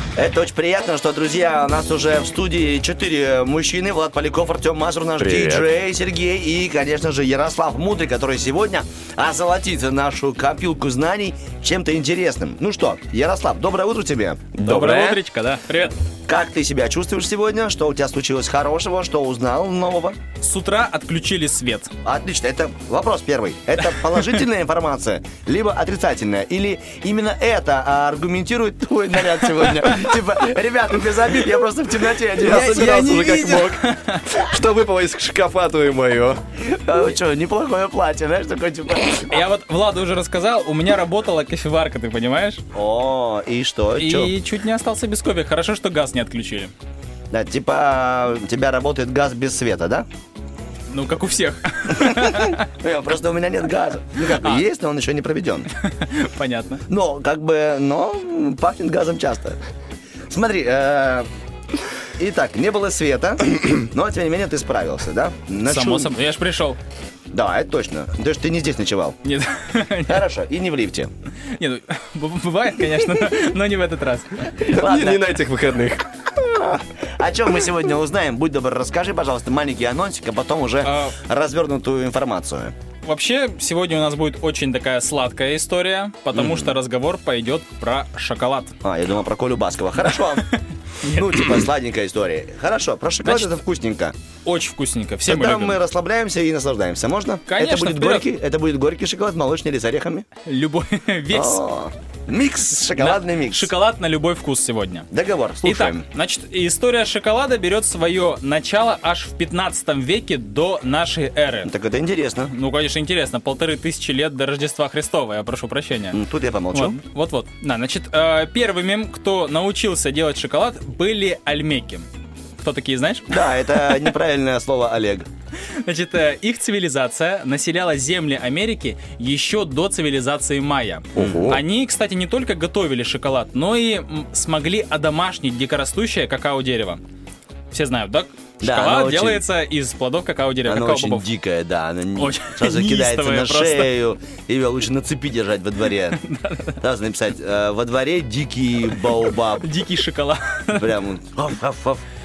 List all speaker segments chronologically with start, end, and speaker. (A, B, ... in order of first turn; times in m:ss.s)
0:00.2-0:14.5 A
0:05.2-0:05.7 B
0:14.6-0:15.2 B
0:14.6-0:16.0 C
0:16.3-0:20.2 A
0:20.4-0:21.9 C
0:22.0-0:33.7 A
0:29.6-0:30.2 C
0:32.4-0:34.4 C
0:32.6-0:33.8 B
0:34.3-0:36.4 B
0:36.6-0:39.4 A
0:39.3-0:42.6 C
0:42.7-0:44.3 A
0:44.0-0:46.7 C
0:47.3-0:50.1 A
0:50.9-0:52.6 C
0:51.9-0:55.7 A
0:54.3-0:54.6 C
0:55.8-0:56.8 C
0:56.9-0:59.6 A
1:00.3-1:01.3 A
1:02.2-1:06.1 A
1:05.6-1:06.8 C
1:07.3-1:09.2 A
1:09.2-1:10.2 C
1:10.1-1:11.1 A
1:11.5-1:14.6 C
1:14.6-1:16.0 B
1:14.6-1:15.4 A
1:16.5-1:22.7 A
1:20.8-1:21.2 C
1:23.0-1:28.8 C
1:26.3-1:26.8 A
1:28.8-1:30.4 A
1:30.4-1:31.5 C
1:31.0-1:34.2 A
1:33.2-1:33.5 C
1:34.4-1:35.8 C
1:35.2-1:40.3 A
1:37.5-1:38.3 C
1:40.5-1:41.6 C
1:41.3-1:43.7 A
1:42.9-1:45.1 C
1:45.1-1:46.1 A
1:45.6-1:51.7 C
1:51.6-1:52.5 A
1:52.5-1:56.2 C
1:56.1-1:57.0 A
1:56.7-2:02.1 C
2:02.6-2:04.1 C
2:03.3-2:05.3 A
2:05.7-2:17.0 C
2:11.2-2:11.6 A
2:11.2-2:11.6 B
2:17.7-2:21.3 C
2:18.6-2:19.4 A
2:20.6-2:26.2 A
2:22.2-2:23.9 C
2:26.1-2:26.8 C
2:26.8-2:29.7 A
2:29.2-2:30.9 C
2:30.7-2:32.0 A